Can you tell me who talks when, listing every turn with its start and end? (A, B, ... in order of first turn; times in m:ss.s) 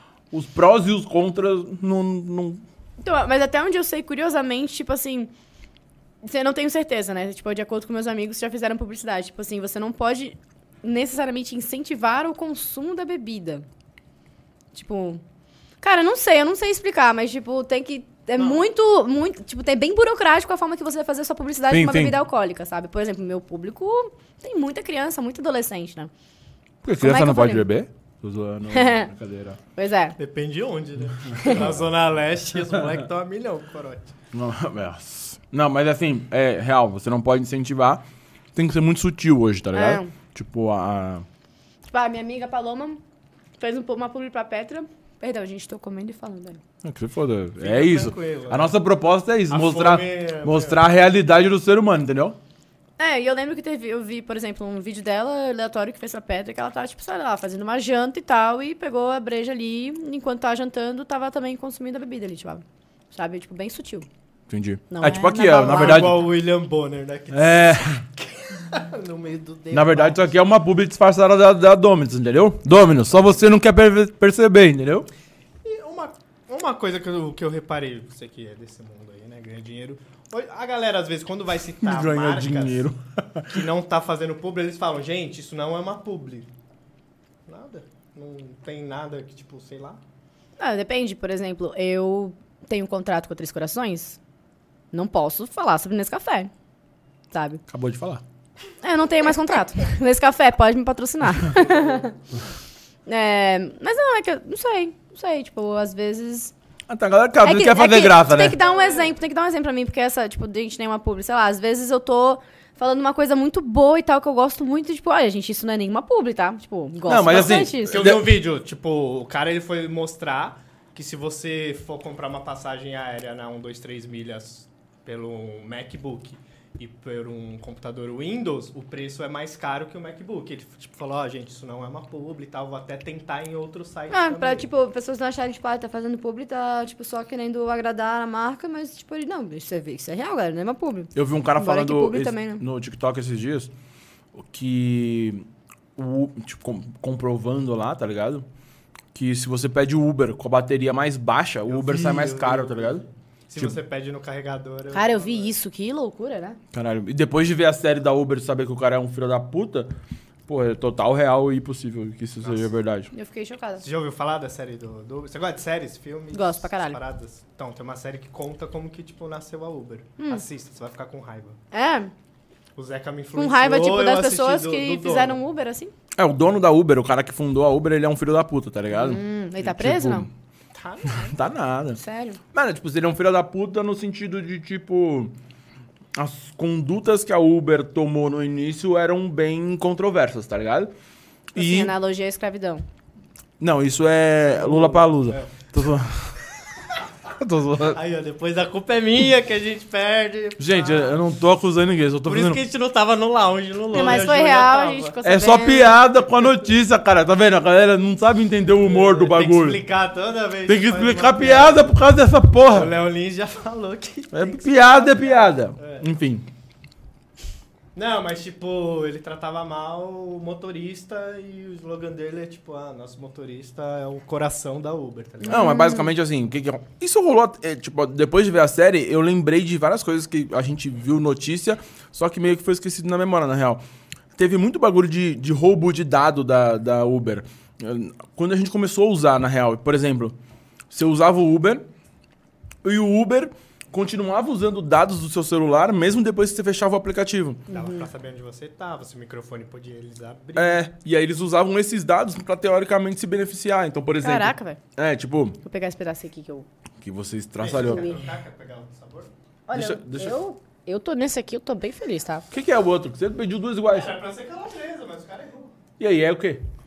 0:00.3-0:02.6 A
0:03.0-0:05.3 B
0:06.2-0:13.6 B
0:14.7-0:15.2 B
0:15.8-0:26.1 B
0:21.7-0:22.2 A
0:26.8-0:29.6 A
0:27.0-0:27.7 B
0:28.7-0:29.1 B
0:29.7-0:30.2 B
0:30.2-0:34.1 C
0:31.4-0:31.8 A
0:34.3-0:38.0 A
0:38.5-0:41.2 A
0:39.7-0:40.1 B
0:41.9-0:43.0 B
0:43.6-0:46.6 B
0:46.8-0:52.4 A
0:47.6-0:48.7 C
0:49.5-0:50.8 C
0:53.0-1:04.1 B
1:04.5-1:06.2 A
1:04.9-1:06.2 B
1:05.5-1:10.3 C
1:07.3-1:08.0 A
1:09.7-1:15.1 A
1:15.6-1:22.8 C
1:21.8-1:23.6 A
1:23.5-1:26.5 C
1:27.5-1:30.0 C
1:30.6-1:34.2 B
1:34.9-1:36.5 B
1:37.3-1:37.6 B
1:37.7-1:38.2 A
1:38.8-1:42.1 B
1:41.6-1:42.0 C
1:43.0-1:46.5 B
1:46.9-1:48.6 A
1:47.4-1:58.0 B
1:48.6-1:49.1 C
1:57.1-1:58.4 A
1:57.3-2:14.7 C
2:14.1-2:22.6 B
2:21.1-2:23.7 A
2:24.3-2:25.4 A
2:26.0-2:28.4 A
2:29.1-2:33.0 A
2:31.7-2:35.5 C
2:34.9-2:36.6 B
2:36.7-2:39.9 A
2:40.5-2:43.1 A
2:42.4-2:42.7 C
2:43.1-2:43.8 B
2:43.8-2:51.6 C
2:46.3-2:47.0 B
2:50.2-2:50.4 B
2:51.7-2:52.1 B
2:52.8-2:55.4 C
2:53.3-2:55.9 B
2:56.1-3:00.3 A
2:58.9-3:00.3 B
3:00.7-3:01.4 C
3:01.1-3:02.0 A
3:02.0-3:02.4 B
3:02.5-3:05.3 A
3:06.1-3:10.9 A
3:11.5-3:11.9 A
3:11.5-3:12.8 B
3:13.6-3:16.5 A
3:14.4-3:15.5 C
3:17.2-3:18.0 A
3:17.9-3:21.2 C
3:20.6-3:22.6 A
3:22.2-3:25.2 C
3:23.9-3:26.0 B
3:25.2-3:29.8 A
3:28.8-3:31.9 C
3:30.7-3:32.9 A
3:32.7-3:36.0 C
3:34.3-3:36.4 A
3:37.9-3:45.8 C
3:45.4-3:53.8 A
3:45.4-3:46.1 B
3:54.3-4:00.4 A
4:00.9-4:01.8 A
4:02.8-4:07.6 A
4:07.7-4:08.0 B
4:07.7-4:10.8 C
4:10.6-4:15.6 A
4:14.2-4:14.8 B
4:15.6-4:16.7 B
4:17.0-4:18.1 A
4:17.6-4:19.3 C
4:17.7-4:18.2 B
4:19.7-4:22.4 B
4:19.7-4:20.4 A
4:22.5-4:24.2 A
4:23.9-4:25.7 C
4:26.0-4:26.6 A